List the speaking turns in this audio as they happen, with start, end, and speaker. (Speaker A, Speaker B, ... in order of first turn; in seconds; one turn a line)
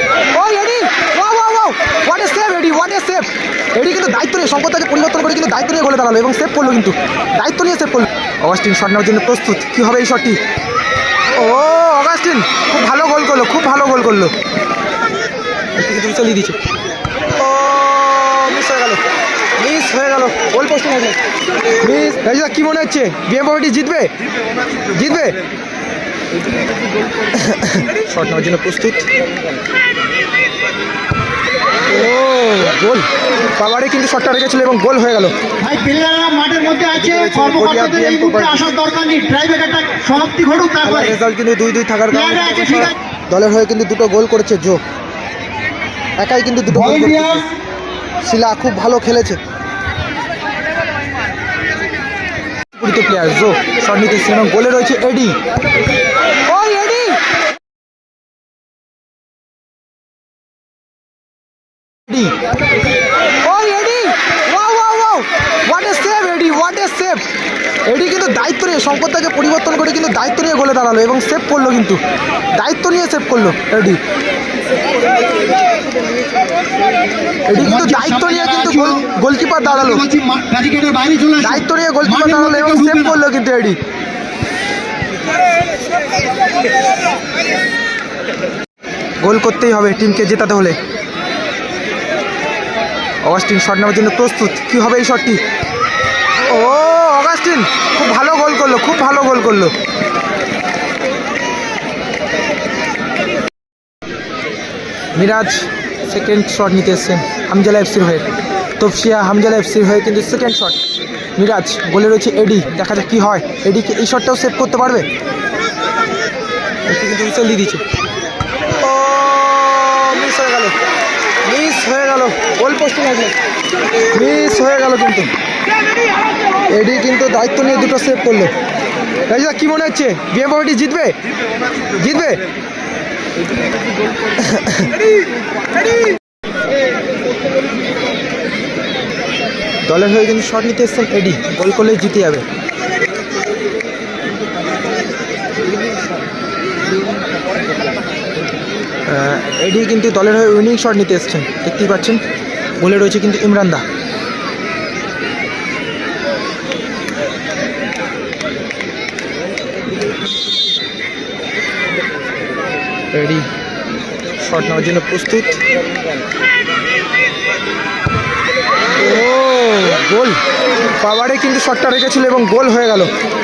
Speaker A: 0.3-10.4
Speaker A: 11.3-14.3
Speaker A: 15.8-16.6
Speaker A: 17.4-19.0
Speaker A: 19.6-21.2
Speaker A: 21.8-24.1
Speaker A: 24.9-25.4
Speaker A: 27.3-29.1
Speaker A: 31.9-35.3
Speaker B: 35.6-41.2
Speaker A: 36.9-38.6
Speaker A: 40.8-44.8
Speaker B: 42.1-43.0
Speaker A: 46.2-47.5
Speaker B: 46.7-47.5
Speaker A: 48.2-49.4
Speaker A: 52.7-55.4
Speaker A: 56.5-57.2
Speaker A: 62.1-62.4
Speaker A: 63.4-67.2
Speaker A: 67.8-72.0
Speaker A: 72.5-74.0
Speaker A: 77.5-80.0
Speaker B: 77.6-79.1
Speaker B: 79.6-83.2
Speaker A: 81.4-83.8
Speaker A: 89.2-90.8
Speaker A: 93.2-95.4
Speaker A: 96.5-99.7
Speaker A: 105.1-110.8
Speaker A: 111.4-115.1
Speaker A: 116.9-117.8
Speaker A: 118.8-120.7
Speaker A: 121.4-123.3
Speaker A: 124.1-125.3
Speaker A: 126.7-128.5
Speaker A: 129.3-131.1
Speaker A: 131.9-132.4
Speaker A: 134.4-134.9
Speaker A: 139.8-142.4
Speaker A: 149.1-152.2
Speaker A: 152.8-153.8
Speaker A: 163.1-163.5
Speaker A: 164.4-165.6
Speaker A: 169.0-170.4
Speaker A: 171.0-173.1